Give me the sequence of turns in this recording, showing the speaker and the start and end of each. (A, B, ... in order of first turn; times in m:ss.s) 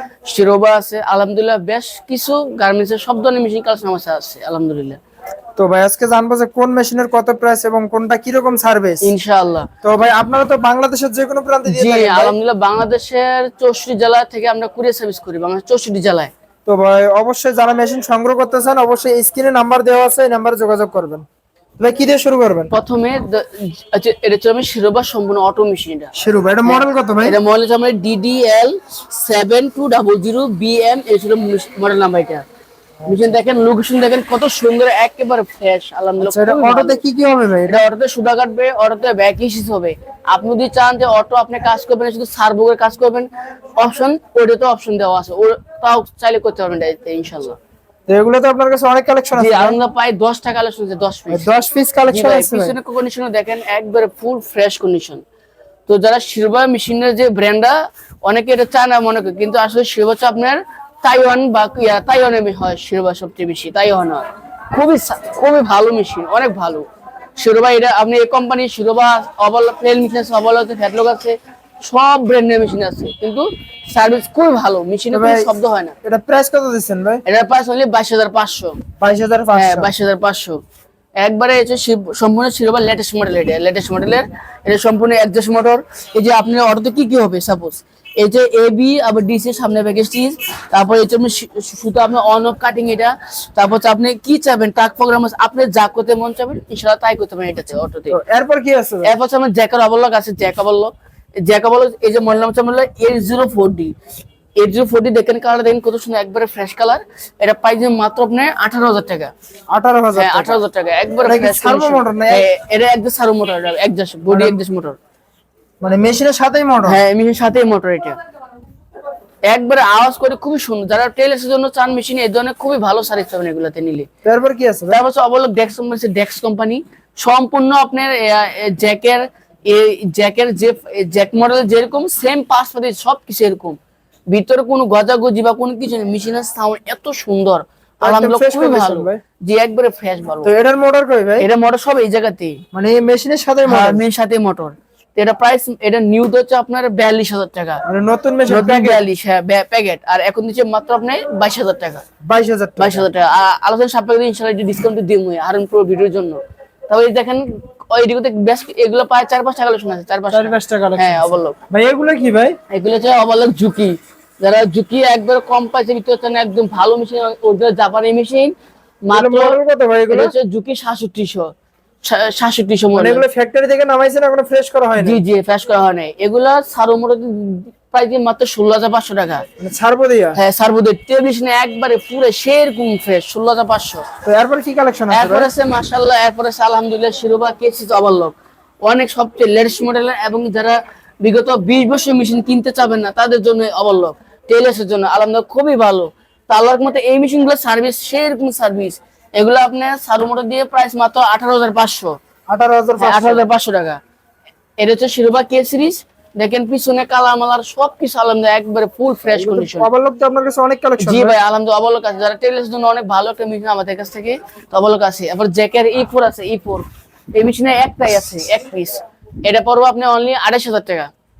0:00.3-0:05.0 A
0:05.6-0:09.1 B
0:09.0-0:09.7 A
0:09.8-0:12.4 B
0:11.7-0:16.3 A
0:16.7-0:21.2 B
0:21.8-0:22.7 B
0:22.7-0:26.1 A
0:26.1-0:27.4 B
0:26.6-0:32.4 A
0:33.1-0:37.0 A
0:36.2-0:37.8 B
0:37.7-0:47.6 A
0:48.1-0:49.8 B
0:49.3-0:51.4 A
0:51.3-0:52.8 B
0:52.1-0:55.2 A
0:55.9-1:06.8 A
1:07.4-1:11.3 A
1:11.9-1:16.0 A
1:15.1-1:15.5 B
1:16.0-1:17.2 B
1:17.3-1:18.8 A
1:19.0-1:19.9 B
1:19.5-1:20.6 A
1:21.2-1:38.2 A
1:38.1-1:39.2 B
1:39.0-1:40.9 A
1:41.4-1:43.9 A
1:44.6-1:49.3 A
1:49.7-1:50.6 B
1:50.2-1:55.0 A
1:51.2-1:52.4 B
1:54.3-1:54.6 B
1:55.8-1:57.0 B
1:56.8-1:58.2 A
1:59.5-2:04.1 A
2:04.2-2:05.0 B
2:04.9-2:13.8 A
2:14.3-2:20.5 A
2:18.0-2:19.2 B
2:20.4-2:21.5 B
2:21.4-2:22.6 A
2:22.7-2:24.0 B
2:23.7-2:27.8 A
2:27.9-2:29.0 B
2:28.5-2:32.0 A
2:32.2-2:33.0 B
2:32.8-2:36.4 A
2:36.9-2:41.6 A
2:40.3-2:42.6 B
2:42.7-2:48.5 A
2:49.1-2:49.6 A
2:49.1-2:50.3 B
2:50.1-2:51.5 A
2:52.0-2:53.2 A
2:52.9-2:55.2 B
2:55.0-2:59.4 A
2:59.6-3:00.4 B
3:00.4-3:04.0 A
3:04.2-3:05.5 B
3:05.1-3:22.1 A
3:22.5-3:23.4 B
3:23.0-3:24.0 A
3:24.8-3:29.9 A
3:29.4-3:31.4 B
3:31.0-3:41.1 A